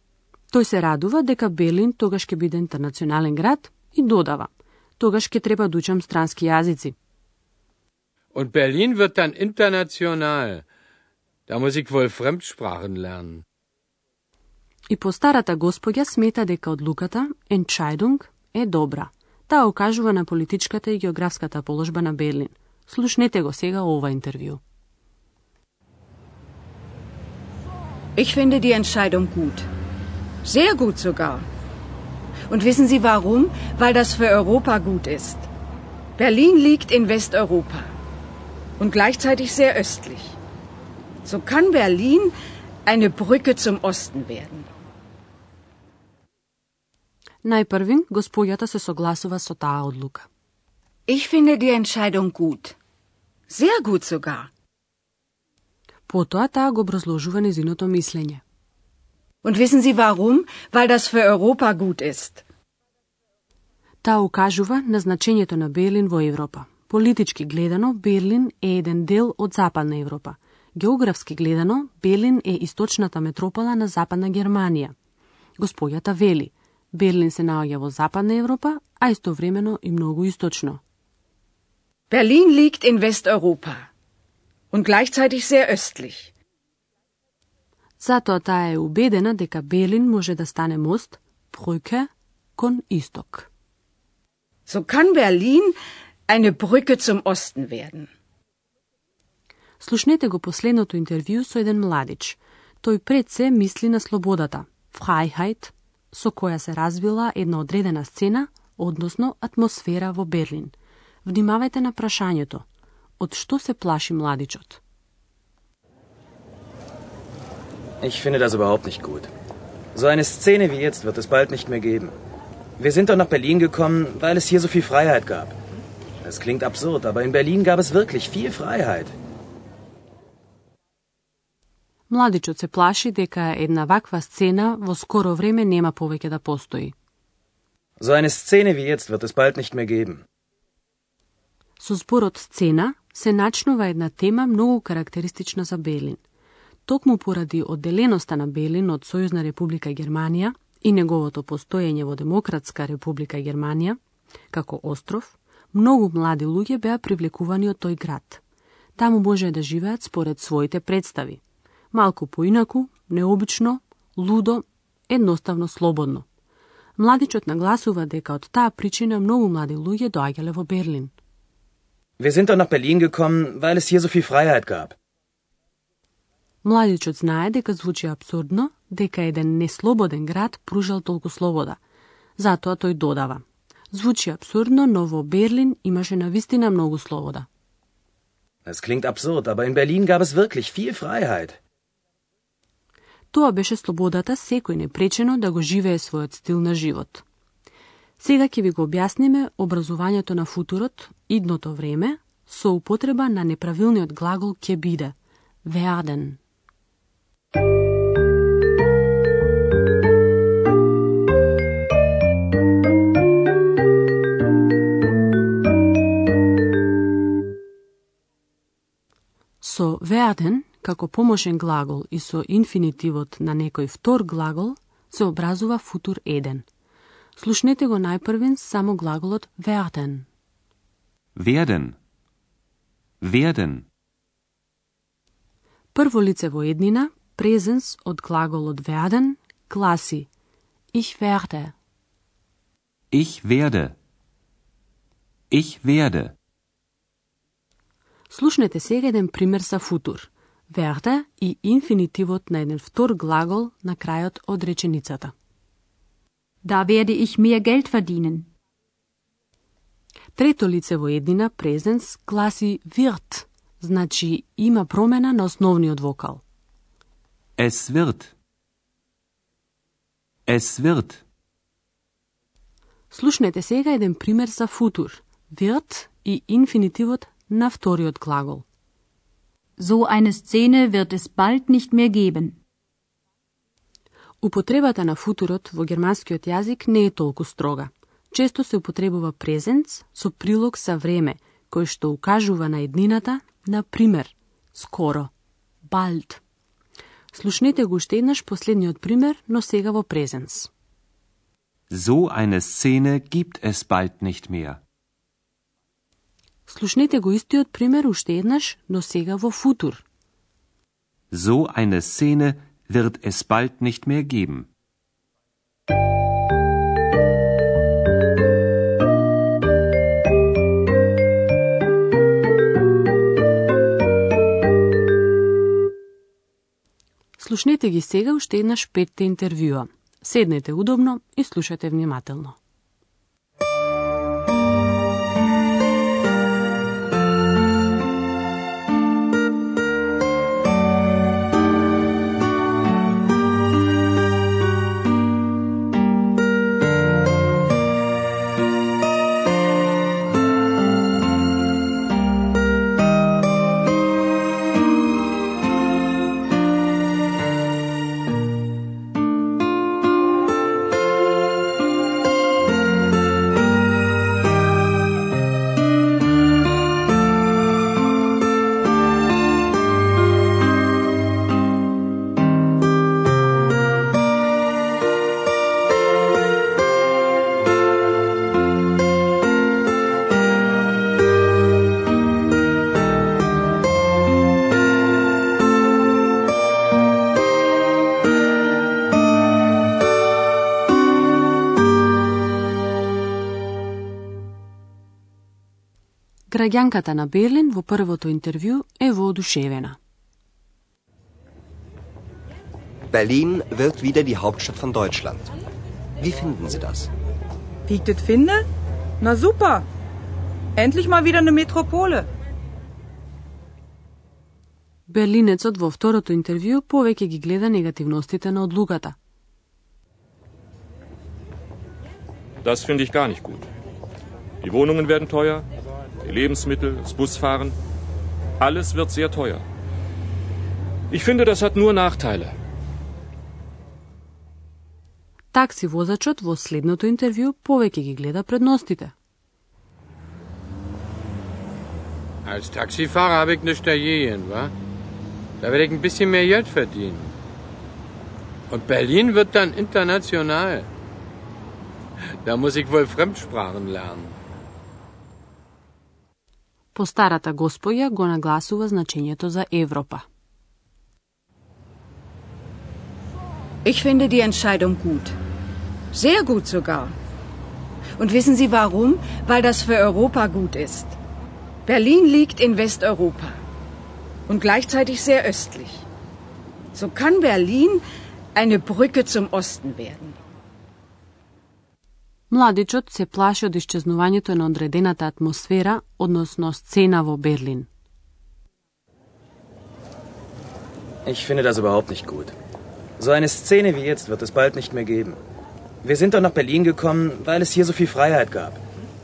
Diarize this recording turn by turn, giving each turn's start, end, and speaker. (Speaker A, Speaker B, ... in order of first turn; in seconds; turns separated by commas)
Speaker A: 0.5-6.9, Speaker B: 8.3-10.6, Speaker B: 11.5-13.4, Speaker A: 14.9-24.6, Speaker C: 28.2-29.7, Speaker C: 30.4-31.4, Speaker C: 32.5-35.5, Speaker C: 36.2-37.9, Speaker C: 38.8-40.4, Speaker C: 41.2-42.3, Speaker C: 42.9-44.7, Speaker A: 47.4-50.3, Speaker C: 51.1-52.8, Speaker C: 53.5-54.5, Speaker A: 56.1-58.4, Speaker C: 59.4-62.4, Speaker A: 64.0-74.9, Speaker A: 75.6-80.8, Speaker C: 82.1-83.9, Speaker C: 84.7-86.3, Speaker A: 88.0-93.5, Speaker C: 94.7-95.8, Speaker C: 96.3-98.1, Speaker A: 99.8-112.6, Speaker A: 113.2-114.8, Speaker D: 118.0-119.3, Speaker D: 119.9-122.1, Speaker D: 122.8-125.5, Speaker D: 126.2-129.1, Speaker A: 132.1-136.9, Speaker D: 138.0-140.2, Speaker A: 141.8-146.2, Speaker A: 146.8-154.0, Speaker A: 154.5-158.4, Speaker A: 159.0-161.4, Speaker A: 161.9-166.2, Speaker A: 167.0-171.1, Speaker D: 172.2-174.9, Speaker A: 176.6-181.8, Speaker A: 182.4-187.5, Speaker D: 188.7-191.6, Speaker A: 193.3-197.2, Speaker A: 198.2-206.4, Speaker A: 219.6-226.7, Speaker A: 227.3-230.3, Speaker E: 231.3-231.9, Speaker E: 233.2-233.8, Speaker A: 235.9-240.3, Speaker A: 240.9-241.7, Speaker E: 243.1-243.9, Speaker E: 245.5-246.3, Speaker A: 248.3-255.3, Speaker F: 256.6-258.5, Speaker A: 260.4-266.4, Speaker E: 267.6-268.3, Speaker E: 270.5-271.2, Speaker A: 273.1-278.6, Speaker F: 279.8-282.6, Speaker A: 284.4-295.3, Speaker A: 295.9-296.4, Speaker A: 297.3-300.7, Speaker E: 301.9-304.8, Speaker A: 306.7-310.0, Speaker E: 311.3-314.7, Speaker A: 327.4-332.6, Speaker A: 396.5-400.0, Speaker G: 403.1-405.5, Speaker G: 406.2-407.1, Speaker H: 407.9-408.6, Speaker H: 409.2-409.8, Speaker H: 410.8-412.3, Speaker A: 415.1-419.1, Speaker I: 422.6-423.7, Speaker I: 424.6-425.6, Speaker I: 426.2-427.8, Speaker I: 428.6-429.6, Speaker I: 431.1-432.6, Speaker A: 435.5-439.1, Speaker B: 442.4-444.7, Speaker B: 445.6-447.3, Speaker B: 448.7-450.9, Speaker B: 452.4-454.4, Speaker A: 456.9-460.2, Speaker C: 463.8-465.4, Speaker C: 466.1-467.1, Speaker C: 468.2-471.2, Speaker C: 471.9-473.6, Speaker C: 474.5-476.0, Speaker C: 476.9-478.0, Speaker C: 478.5-480.4, Speaker A: 482.5-487.9, Speaker D: 491.2-492.5, Speaker D: 493.2-495.4, Speaker D: 496.0-498.8